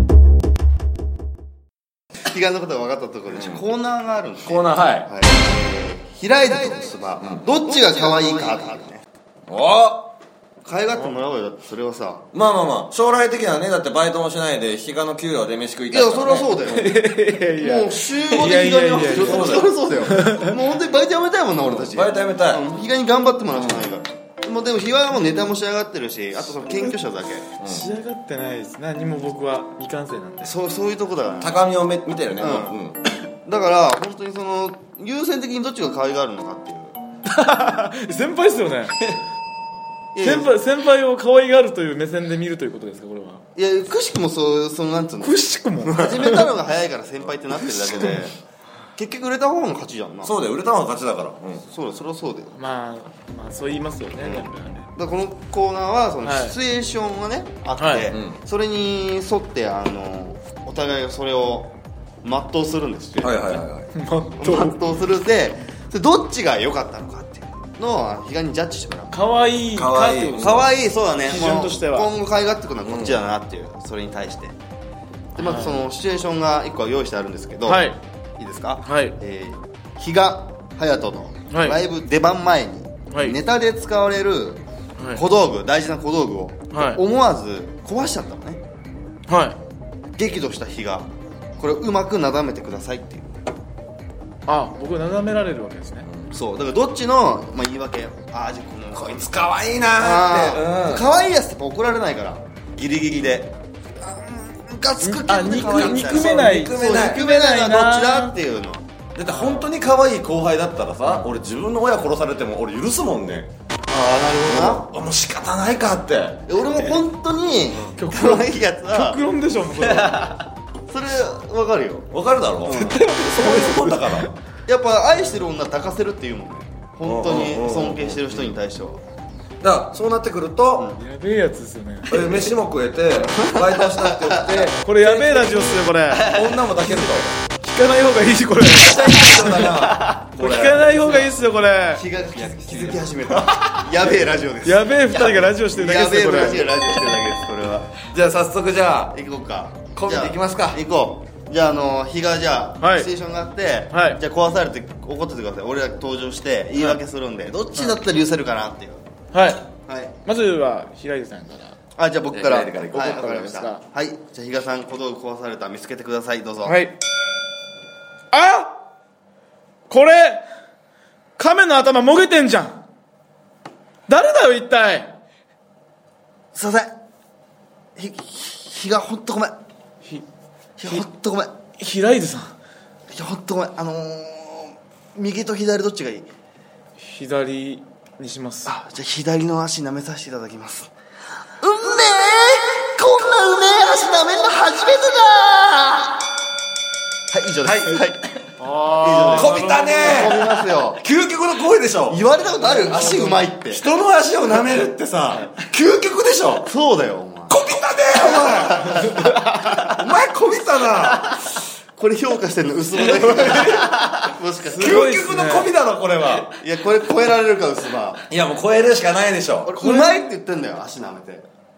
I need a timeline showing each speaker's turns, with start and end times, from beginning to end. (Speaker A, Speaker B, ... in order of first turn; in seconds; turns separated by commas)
Speaker A: 2.2-9.0, Speaker B: 3.3-3.6, Speaker B: 4.5-5.1, Speaker B: 7.2-7.6, Speaker B: 9.5-10.1, Speaker A: 10.6-12.2, Speaker B: 12.3-16.8, Speaker A: 15.9-27.5, Speaker C: 16.6-20.6, Speaker B: 19.0-20.1, Speaker B: 21.6-22.7, Speaker B: 23.6-23.9, Speaker B: 27.6-27.9, Speaker C: 27.6-30.5, Speaker A: 30.4-31.6, Speaker B: 31.4-33.0, Speaker A: 32.4-32.8, Speaker A: 33.4-37.0, Speaker C: 37.2-39.1, Speaker A: 40.1-40.5, Speaker C: 40.2-43.4, Speaker A: 43.6-48.4, Speaker C: 45.2-46.5, Speaker A: 49.0-50.4, Speaker B: 50.2-51.6, Speaker A: 51.7-52.5, Speaker C: 52.5-54.9, Speaker A: 54.2-63.6, Speaker C: 56.2-56.6, Speaker C: 57.8-58.1, Speaker B: 58.1-58.4, Speaker B: 63.2-63.9, Speaker C: 63.9-64.8, Speaker A: 64.4-69.3, Speaker C: 69.1-70.6, Speaker B: 69.7-70.7, Speaker A: 70.3-74.6, Speaker C: 71.2-72.1, Speaker B: 72.8-73.2, Speaker A: 75.3-84.6, Speaker C: 75.4-75.8, Speaker C: 77.7-78.0, Speaker C: 78.8-79.2, Speaker C: 81.5-81.8, Speaker C: 83.1-83.4, Speaker C: 85.0-85.2, Speaker A: 85.1-88.6, Speaker C: 86.7-87.0, Speaker C: 89.3-89.6, Speaker A: 90.1-93.4, Speaker C: 94.5-96.1, Speaker A: 96.3-99.3, Speaker B: 98.9-101.1, Speaker A: 100.0-108.9, Speaker C: 105.0-108.4, Speaker B: 105.6-107.2, Speaker B: 109.2-113.5, Speaker C: 109.3-109.7, Speaker A: 113.9-114.9, Speaker B: 114.4-116.4, Speaker A: 116.5-119.2, Speaker C: 118.0-120.4, Speaker A: 120.9-122.1, Speaker B: 122.1-124.3, Speaker C: 122.7-124.3, Speaker A: 124.7-129.0, Speaker B: 127.0-128.5, Speaker B: 129.6-130.9, Speaker C: 131.0-132.2, Speaker B: 132.1-137.3, Speaker A: 133.2-134.7, Speaker C: 134.6-136.5, Speaker C: 137.6-142.1, Speaker B: 138.7-141.3, Speaker A: 141.9-148.0, Speaker B: 142.3-143.9, Speaker C: 144.6-146.8, Speaker B: 148.0-149.2, Speaker A: 149.1-159.0, Speaker B: 149.9-150.8, Speaker C: 152.8-153.1, Speaker C: 153.9-154.2, Speaker C: 159.3-159.7, Speaker A: 159.9-160.2, Speaker C: 160.2-161.8, Speaker A: 162.0-166.8, Speaker B: 162.3-163.4, Speaker C: 163.0-163.8, Speaker C: 166.6-167.0, Speaker C: 168.3-168.8, Speaker C: 169.9-170.4, Speaker C: 171.4-172.8, Speaker C: 174.1-175.1, Speaker A: 176.5-177.0, Speaker A: 178.0-179.6, Speaker A: 180.8-181.6, Speaker C: 181.8-182.6, Speaker A: 183.1-186.3, Speaker C: 187.0-188.7, Speaker A: 188.7-190.9, Speaker A: 191.6-196.3, Speaker A: 197.3-198.2, Speaker B: 197.6-198.0, Speaker C: 198.6-200.4, Speaker A: 199.0-201.0, Speaker B: 199.3-206.7, Speaker A: 202.1-203.8, Speaker C: 202.6-203.0, Speaker A: 206.6-207.6, Speaker B: 207.5-211.5, Speaker A: 208.1-209.4, Speaker C: 209.0-209.9, Speaker A: 211.9-215.1, Speaker B: 213.1-216.5, Speaker C: 214.6-215.7, Speaker A: 216.5-218.2, Speaker B: 218.3-219.8, Speaker A: 219.6-221.5, Speaker C: 219.8-220.2